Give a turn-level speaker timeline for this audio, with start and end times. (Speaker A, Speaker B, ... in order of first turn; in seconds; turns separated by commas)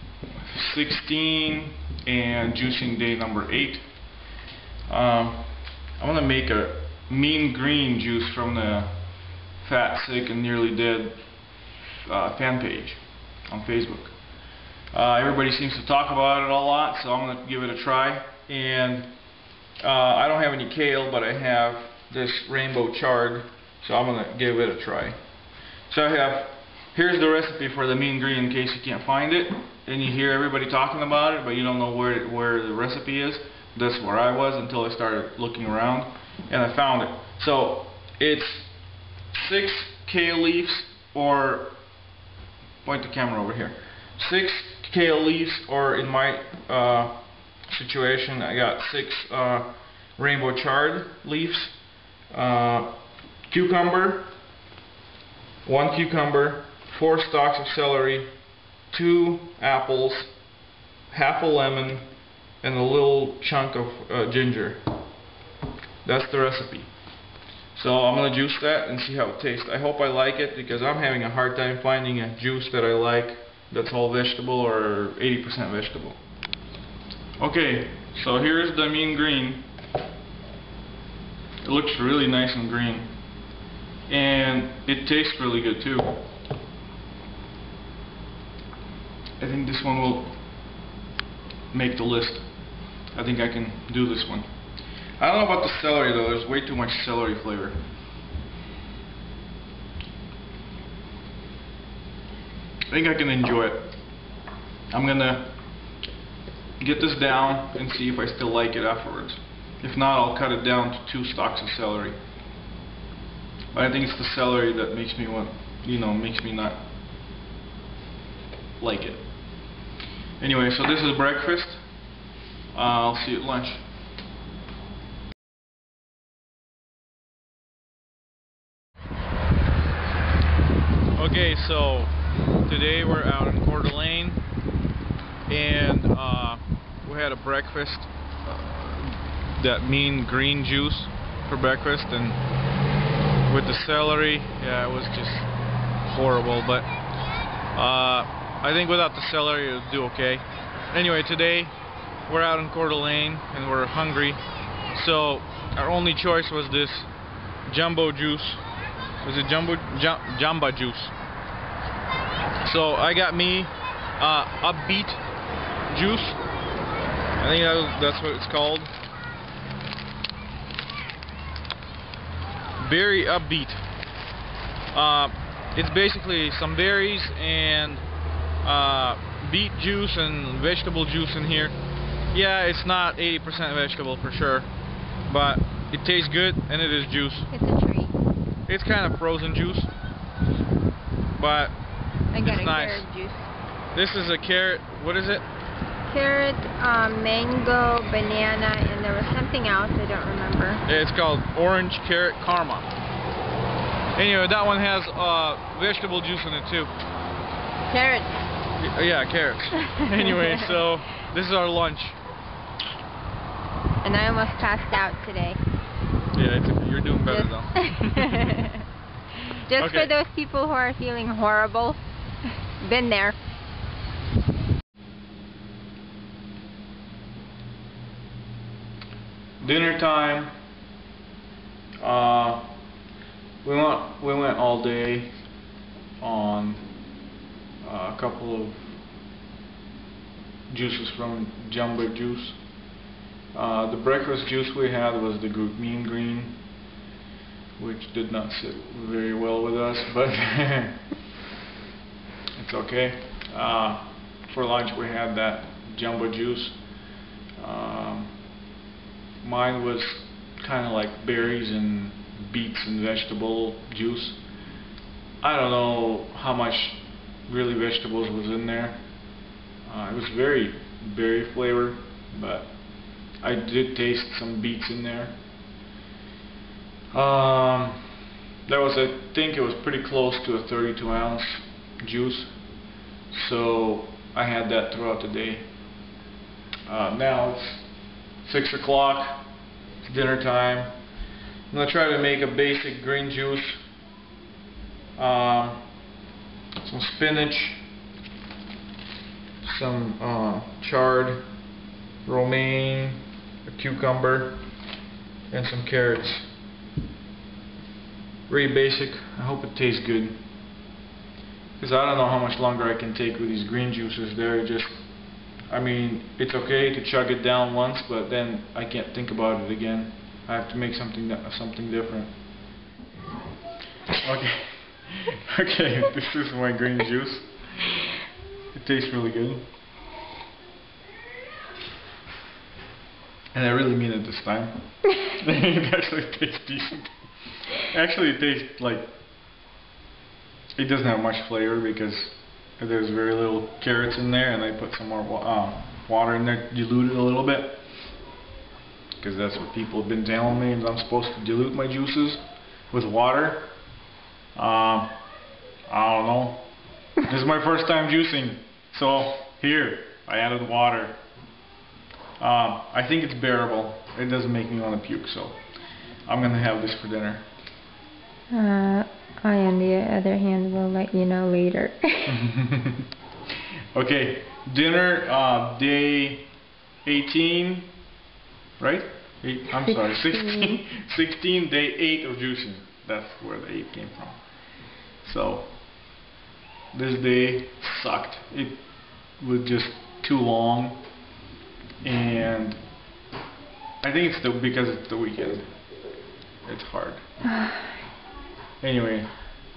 Speaker A: 0.4-3.9, Speaker A: 4.9-9.0, Speaker A: 9.6-11.2, Speaker A: 12.1-14.2, Speaker A: 14.9-19.1, Speaker A: 19.8-25.2, Speaker A: 25.9-38.7, Speaker A: 39.3-41.8, Speaker A: 42.8-47.2, Speaker A: 47.7-51.8, Speaker A: 52.3-52.9, Speaker A: 53.5-54.3, Speaker A: 55.6-58.3, Speaker A: 58.9-60.3, Speaker A: 61.1-62.1, Speaker A: 62.6-64.8, Speaker A: 66.0-66.9, Speaker A: 67.8-76.2, Speaker A: 77.4-79.7, Speaker A: 81.6-83.1, Speaker A: 84.1-86.2, Speaker A: 89.4-90.3, Speaker A: 91.7-92.5, Speaker A: 93.1-94.5, Speaker A: 95.2-97.8, Speaker A: 102.9-103.9, Speaker A: 104.9-105.5, Speaker A: 106.8-112.2, Speaker A: 113.7-116.8, Speaker A: 118.8-119.3, Speaker A: 120.4-121.8, Speaker A: 122.7-123.8, Speaker A: 131.2-132.1, Speaker A: 132.7-134.4, Speaker A: 135.5-142.4, Speaker A: 143.5-145.5, Speaker A: 146.1-146.9, Speaker A: 147.7-151.7, Speaker A: 152.3-154.4, Speaker A: 154.9-157.1, Speaker A: 157.7-158.6, Speaker A: 159.2-161.1, Speaker A: 162.6-165.2, Speaker A: 165.9-166.4, Speaker A: 167.4-168.9, Speaker A: 172.8-173.8, Speaker A: 174.9-178.0, Speaker A: 178.6-181.8, Speaker A: 182.3-184.7, Speaker A: 185.3-187.5, Speaker B: 187.5-188.2, Speaker A: 188.7-189.9, Speaker A: 191.3-191.8, Speaker B: 192.3-193.5, Speaker A: 192.4-193.1, Speaker A: 193.9-195.5, Speaker B: 196.1-200.8, Speaker A: 200.8-202.9, Speaker A: 204.2-206.9, Speaker B: 207.9-208.4, Speaker A: 208.8-212.2, Speaker B: 209.9-210.7, Speaker B: 214.0-215.6, Speaker A: 216.3-218.6, Speaker B: 217.3-218.8, Speaker B: 219.4-222.0, Speaker A: 219.8-220.1, Speaker B: 222.8-223.4, Speaker A: 229.6-230.5, Speaker A: 232.0-232.7, Speaker A: 233.6-235.3, Speaker A: 236.2-236.8, Speaker A: 237.8-238.9, Speaker A: 240.7-242.6, Speaker A: 243.5-246.6, Speaker A: 247.8-251.0, Speaker A: 252.6-256.8, Speaker A: 257.6-258.3, Speaker A: 259.4-264.4, Speaker A: 265.4-269.0, Speaker A: 269.9-272.7, Speaker A: 273.4-275.4, Speaker A: 277.1-278.0, Speaker A: 278.7-282.5, Speaker A: 283.3-285.6, Speaker A: 286.9-287.9, Speaker A: 288.4-289.5, Speaker A: 290.0-290.9, Speaker A: 291.7-293.8, Speaker A: 295.2-295.8, Speaker A: 296.8-297.8, Speaker A: 299.6-301.4, Speaker A: 302.2-304.6, Speaker A: 305.5-306.5, Speaker A: 308.5-310.4, Speaker A: 311.8-315.0, Speaker A: 315.7-322.3, Speaker A: 324.2-328.0, Speaker A: 328.7-329.6, Speaker A: 333.5-337.1, Speaker A: 337.8-339.1, Speaker A: 340.8-347.8, Speaker A: 349.2-353.7, Speaker A: 354.6-355.1, Speaker A: 355.9-356.7, Speaker A: 357.2-361.2, Speaker A: 362.4-365.6, Speaker A: 366.3-367.4, Speaker B: 368.5-372.4, Speaker A: 372.3-373.0, Speaker A: 373.9-376.5, Speaker A: 377.1-377.9, Speaker A: 378.8-384.4, Speaker B: 379.9-380.8, Speaker A: 385.2-385.7, Speaker A: 386.9-388.8, Speaker A: 389.4-391.0, Speaker A: 392.0-392.8, Speaker A: 394.0-395.7, Speaker A: 396.6-397.2, Speaker A: 398.8-399.3